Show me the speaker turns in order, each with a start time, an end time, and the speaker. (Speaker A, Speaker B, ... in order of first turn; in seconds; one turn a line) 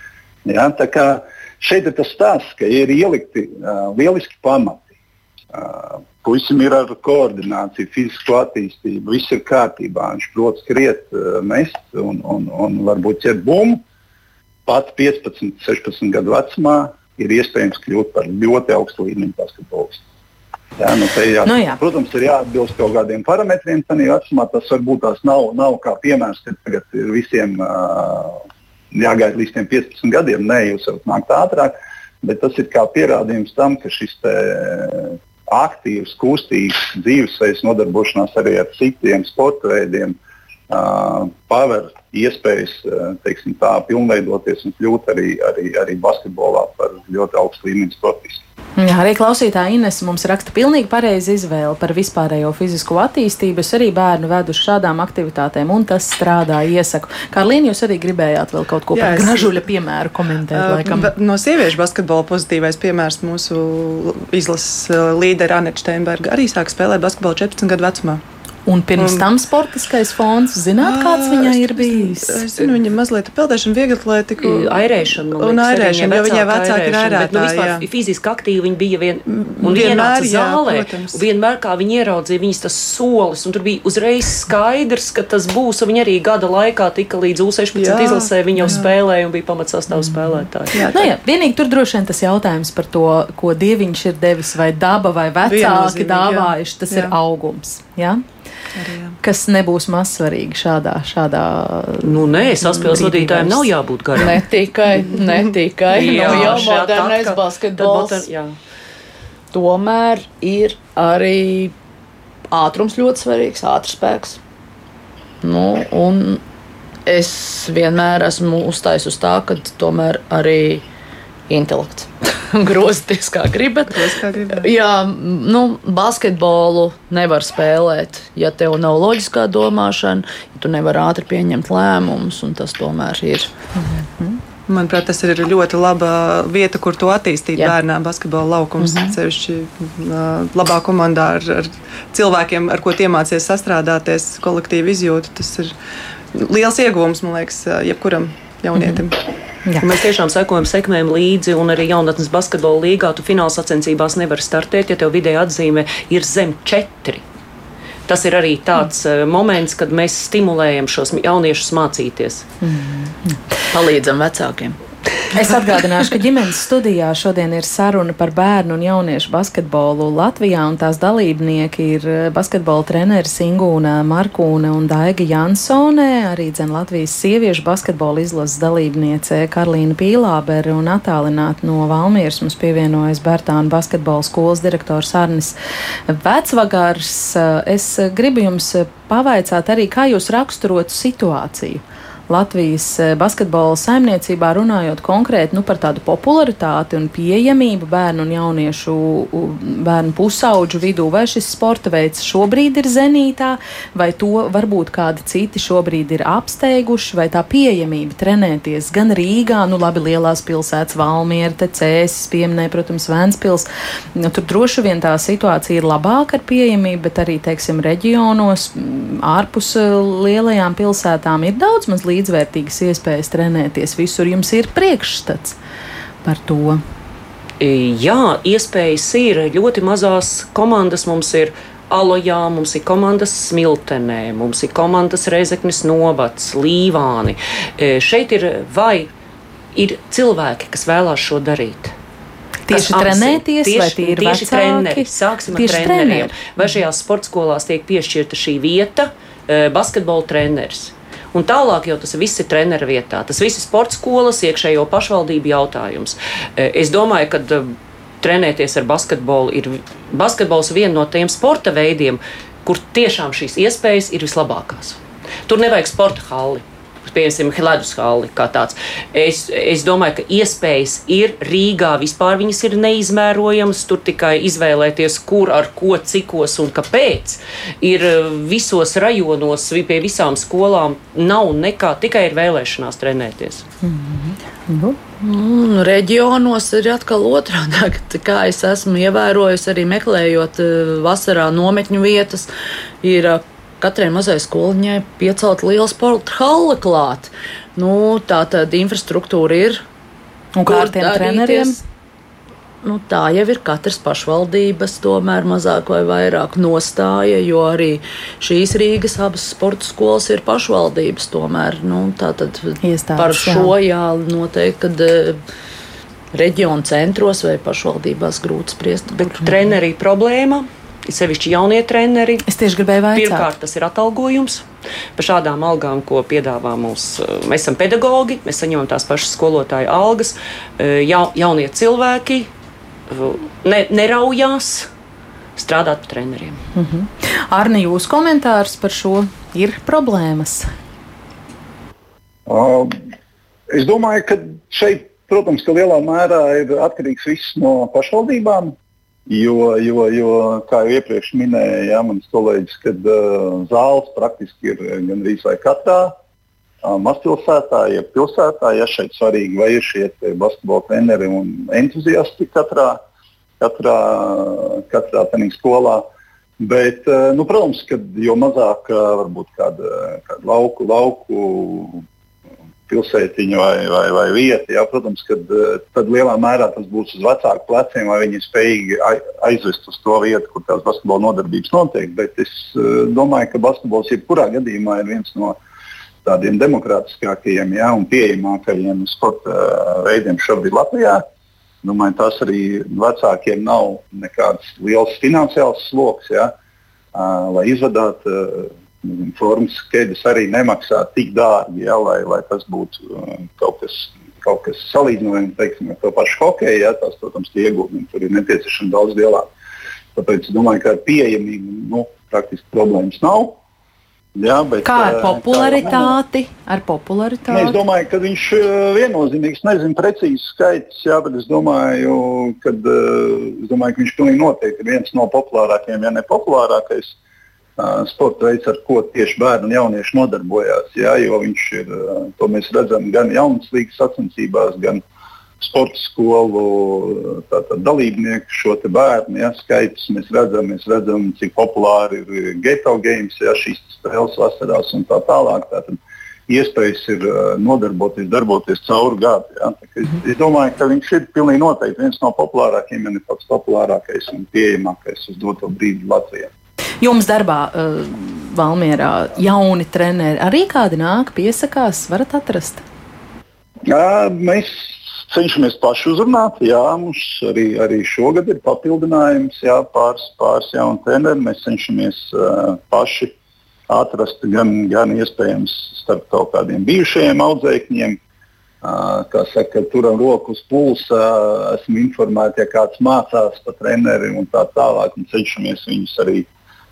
Speaker A: 0.4-4.9
Speaker A: 5.5-13.8
Speaker A: 14.7-20.0
Speaker A: 20.8-40.2
Speaker B: 21.4-21.8
Speaker A: 40.7-48.4
Speaker B: 48.8-61.1
Speaker C: 58.9-59.6
Speaker C: 60.5-68.2
Speaker B: 68.7-72.7
Speaker C: 69.0-69.2
Speaker C: 70.8-77.8
Speaker D: 74.4-90.8
Speaker C: 79.3-81.2
Speaker C: 87.7-88.9
Speaker C: 90.7-91.1
Speaker B: 90.9-98.2
Speaker C: 95.4-97.1
Speaker C: 98.8-99.2
Speaker B: 99.2-102.1
Speaker D: 102.0-104.4
Speaker B: 102.8-103.7
Speaker E: 104.2-108.2
Speaker D: 105.9-108.5
Speaker C: 106.1-106.6
Speaker E: 109.5-111.7
Speaker E: 112.5-114.4
Speaker E: 115.4-116.4
Speaker E: 117.1-120.8
Speaker E: 121.5-133.5
Speaker C: 123.9-124.7
Speaker B: 133.8-134.4
Speaker C: 134.7-145.7
Speaker E: 138.8-139.2
Speaker C: 146.3-149.2
Speaker D: 149.8-157.2
Speaker D: 158.1-162.4
Speaker B: 162.6-163.4
Speaker E: 163.7-164.8
Speaker B: 165.3-185.5
Speaker B: 186.1-225.6
Speaker B: 226.2-226.8
Speaker D: 227.6-239.1
Speaker D: 239.7-241.9
Speaker B: 242.7-246.5
Speaker D: 242.7-283.6
Speaker B: 283.8-285.0
Speaker E: 285.2-292.5
Speaker E: 293.0-299.8
Speaker B: 300.5-301.8
Speaker E: 300.7-301.8
Speaker E: 302.8-315.4
Speaker B: 312.8-313.7
Speaker E: 316.3-319.5
Speaker D: 319.1-322.5
Speaker B: 322.4-323.4
Speaker D: 323.1-324.6
Speaker D: 325.1-332.5
Speaker D: 333.1-334.9
Speaker D: 335.6-336.6
Speaker B: 336.7-340.6
Speaker A: 342.4-343.0
Speaker A: 343.7-348.8
Speaker A: 349.3-356.1
Speaker A: 356.8-363.0
Speaker A: 363.6-366.1
Speaker A: 366.6-372.0
Speaker A: 372.9-385.6
Speaker A: 386.2-391.2
Speaker A: 391.8-396.5
Speaker A: 397.1-409.5
Speaker A: 410.1-413.6
Speaker A: 414.4-416.1
Speaker B: 414.8-417.8
Speaker A: 417.5-427.1
Speaker A: 427.8-435.0
Speaker A: 435.6-456.5
Speaker B: 457.0-462.8
Speaker A: 463.9-473.3
Speaker A: 473.9-478.2
Speaker A: 478.8-486.5